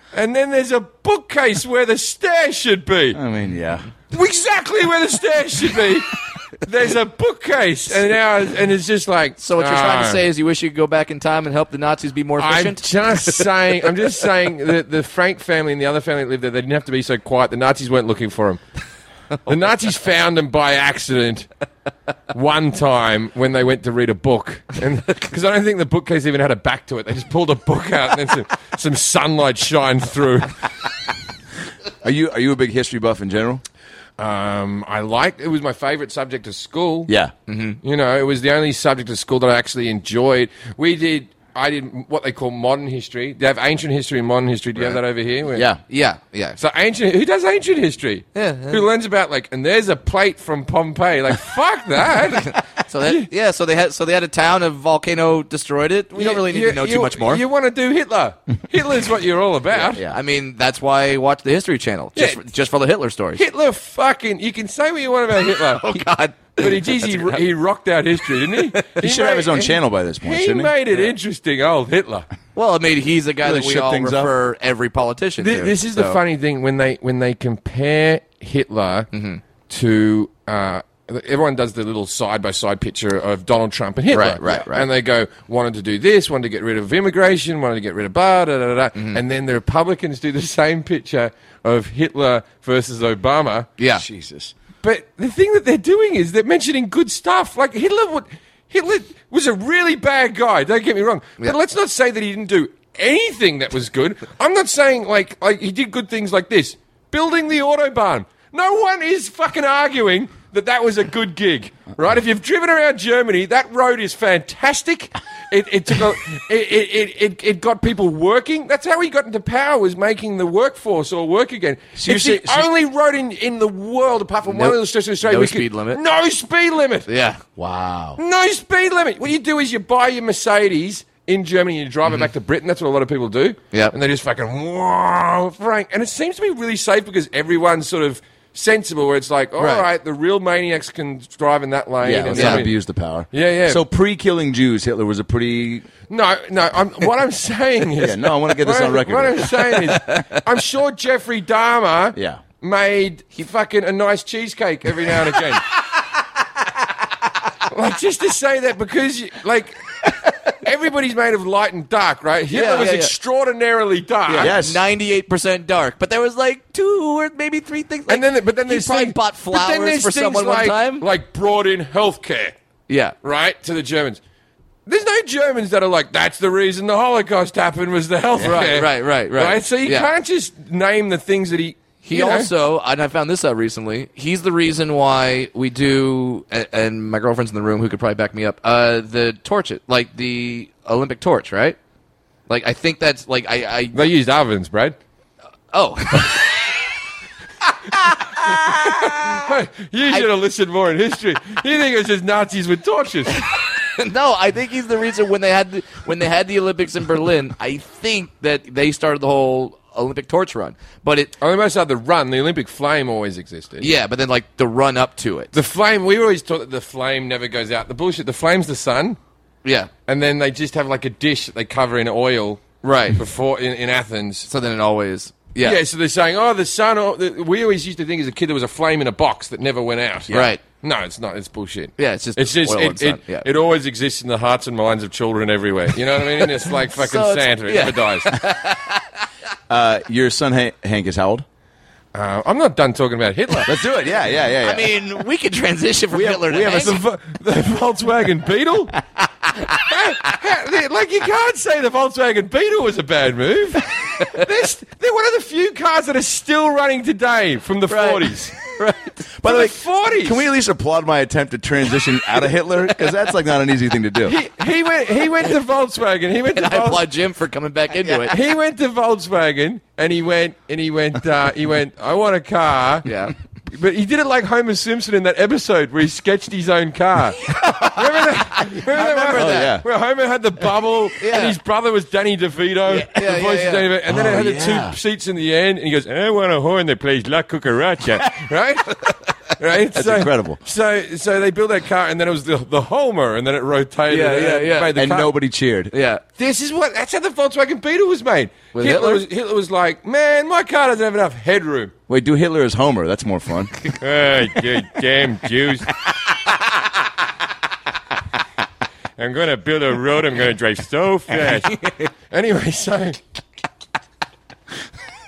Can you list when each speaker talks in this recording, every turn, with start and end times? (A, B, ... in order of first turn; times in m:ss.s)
0:00.1-0:03.2 A
0:03.1-0:03.9 B
0:04.1-0:10.3 A
0:09.4-0:13.5 C
0:12.4-0:18.6 A
0:19.5-0:21.5 A
0:22.3-0:30.6 A
0:32.0-0:33.6 B
0:34.2-0:37.1 A
0:37.1-0:37.3 B
0:37.5-0:37.8 C
0:37.8-0:45.7 A
0:45.5-0:45.8 B
0:45.9-0:46.6 C
0:46.6-0:53.3 A
0:48.4-0:48.8 C
0:52.4-0:57.4 C
0:56.2-1:00.0 A
0:59.7-1:03.4 C
1:02.2-1:02.4 A
1:03.4-1:06.0 A
1:05.4-1:07.4 C
1:06.6-1:12.3 A
1:08.5-1:09.0 C
1:09.0-1:10.7 B
1:12.6-1:16.2 C
1:13.4-1:14.3 B
1:15.4-1:19.1 A
1:19.1-1:19.4 C
1:19.7-1:33.7 A
1:24.1-1:24.9 C
1:29.0-1:29.2 C
1:33.8-1:34.0 C
1:34.0-1:34.5 B
1:34.8-2:07.1 A
2:02.0-2:02.7 B
2:04.5-2:06.0 C
2:07.1-2:07.4 C
2:07.6-2:08.2 B
2:08.2-2:22.7 A
2:19.6-2:19.8 C
2:22.0-2:25.9 B
2:22.3-2:22.6 C
2:23.3-2:23.8 A
2:26.1-2:35.7 A
2:28.0-2:29.8 B
2:29.9-2:30.2 C
2:32.2-2:32.4 B
2:37.7-2:44.5 A
2:42.5-2:43.1 C
2:44.3-2:51.0 C
2:44.4-2:44.8 B
2:48.1-2:52.6 A
2:52.9-2:53.2 C
2:53.2-2:54.2 A
2:54.9-3:02.5 A
2:58.4-3:00.1 C
3:02.0-3:11.8 C
3:12.5-3:14.0 C
3:13.9-3:15.0 A
3:15.7-3:16.7 C
3:18.0-3:19.5 C
3:18.4-3:23.5 A
3:23.4-3:31.3 C
3:31.4-3:33.9 A
3:33.8-3:35.5 C
3:35.5-3:39.2 A
3:39.6-3:39.9 C
3:40.1-3:44.5 A
3:42.8-3:43.2 C
3:44.5-3:45.8 C
3:45.6-3:58.4 A
3:50.3-3:50.6 C
3:52.0-3:53.5 C
3:56.2-3:59.2 C
3:59.7-4:01.4 B
4:02.1-4:03.8 A
4:03.6-4:05.0 B
4:04.6-4:07.0 C
4:06.1-4:07.0 B
4:06.3-4:09.0 A
4:09.5-4:09.8 C
4:09.7-4:18.7 A
4:14.2-4:14.4 C
4:17.9-4:19.3 C
4:19.4-4:24.4 B
4:19.4-4:20.4 A
4:24.2-4:27.1 A
4:26.6-4:28.4 C
4:28.1-4:33.1 A
4:33.0-4:33.3 C
4:33.7-4:55.3 A
4:37.4-4:39.8 C
4:39.3-4:39.8 B
4:41.2-4:41.6 C
4:42.9-4:43.8 C
4:44.1-4:45.0 B
4:49.9-4:50.6 B
4:54.1-4:55.0 C
4:54.9-4:55.9 B
4:55.9-4:56.2 C
4:56.4-5:01.9 A
4:58.7-4:59.2 C
5:02.1-5:03.7 B
5:04.0-5:05.9 A
5:09.2-5:13.2 A
5:11.6-5:12.1 C